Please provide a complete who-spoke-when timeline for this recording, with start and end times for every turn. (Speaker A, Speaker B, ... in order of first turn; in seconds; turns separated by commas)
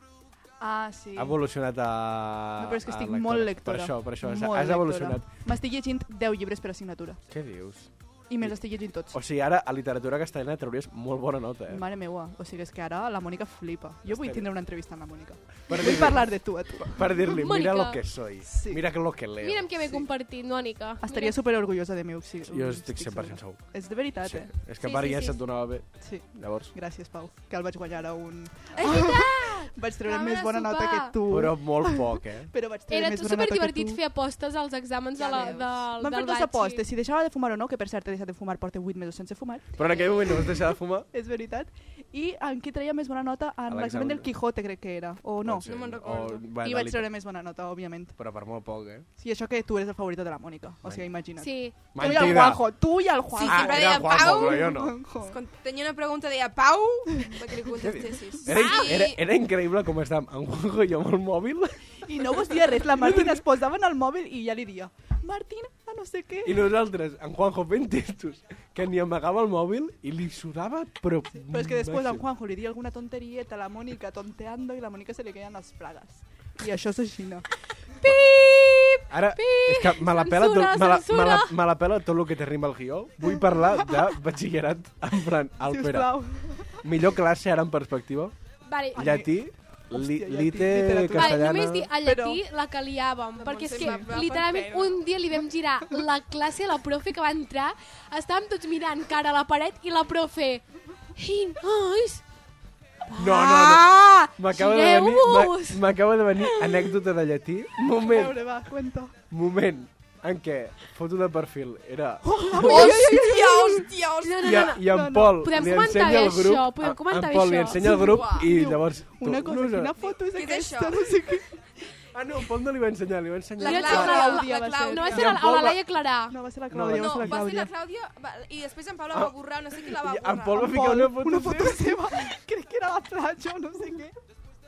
Speaker A: 0.6-1.4, Speaker B: 1.1-5.3, Speaker A: 2.6-7.2, Speaker B: 7.3-11.8, Speaker A: 8.3-9.2, Speaker A: 11.7-17.1, Speaker B: 14.1-14.5, Speaker B: 15.7-19.8, Speaker C: 17.3-18.0, Speaker A: 18.5-18.8, Speaker C: 19.4-21.4, Speaker A: 21.0-24.5, Speaker B: 22.5-26.7, Speaker C: 24.8-25.4, Speaker A: 26.0-34.0, Speaker D: 28.8-31.2, Speaker B: 31.3-32.5, Speaker C: 32.9-36.8, Speaker D: 35.2-35.8, Speaker A: 35.2-45.7, Speaker B: 39.8-41.1, Speaker B: 43.7-44.3, Speaker B: 45.4-47.1, Speaker D: 45.6-46.5, Speaker A: 46.6-48.2, Speaker B: 48.2-49.1, Speaker A: 49.2-55.4, Speaker B: 50.8-51.1, Speaker C: 51.4-51.8, Speaker B: 51.9-52.7, Speaker D: 53.3-59.2, Speaker B: 53.4-55.0, Speaker B: 57.8-62.1, Speaker C: 58.5-58.9, Speaker A: 62.0-66.7, Speaker B: 62.8-63.4, Speaker B: 66.4-72.2, Speaker A: 71.4-77.5, Speaker C: 78.0-81.5, Speaker B: 79.1-86.1, Speaker A: 85.6-86.8, Speaker B: 86.7-88.3, Speaker C: 88.7-89.0, Speaker B: 88.9-91.9, Speaker A: 89.0-92.4, Speaker C: 91.1-100.7, Speaker D: 93.4-95.0, Speaker A: 93.8-94.1, Speaker C: 101.2-102.2, Speaker C: 103.1-105.8, Speaker B: 103.2-108.5, Speaker A: 108.0-109.2, Speaker B: 109.3-113.0, Speaker A: 112.2-113.8, Speaker D: 112.6-114.8, Speaker C: 112.7-113.4, Speaker C: 114.2-117.8, Speaker B: 114.4-120.0, Speaker A: 114.8-115.8, Speaker A: 117.8-121.7, Speaker D: 117.8-118.5, Speaker D: 120.0-121.2, Speaker B: 122.1-124.3, Speaker D: 123.6-125.2, Speaker C: 123.6-126.4, Speaker A: 123.8-125.5, Speaker B: 125.1-125.8, Speaker A: 126.3-127.7, Speaker B: 126.7-127.4, Speaker D: 126.9-130.7, Speaker B: 129.1-132.0, Speaker A: 130.6-134.2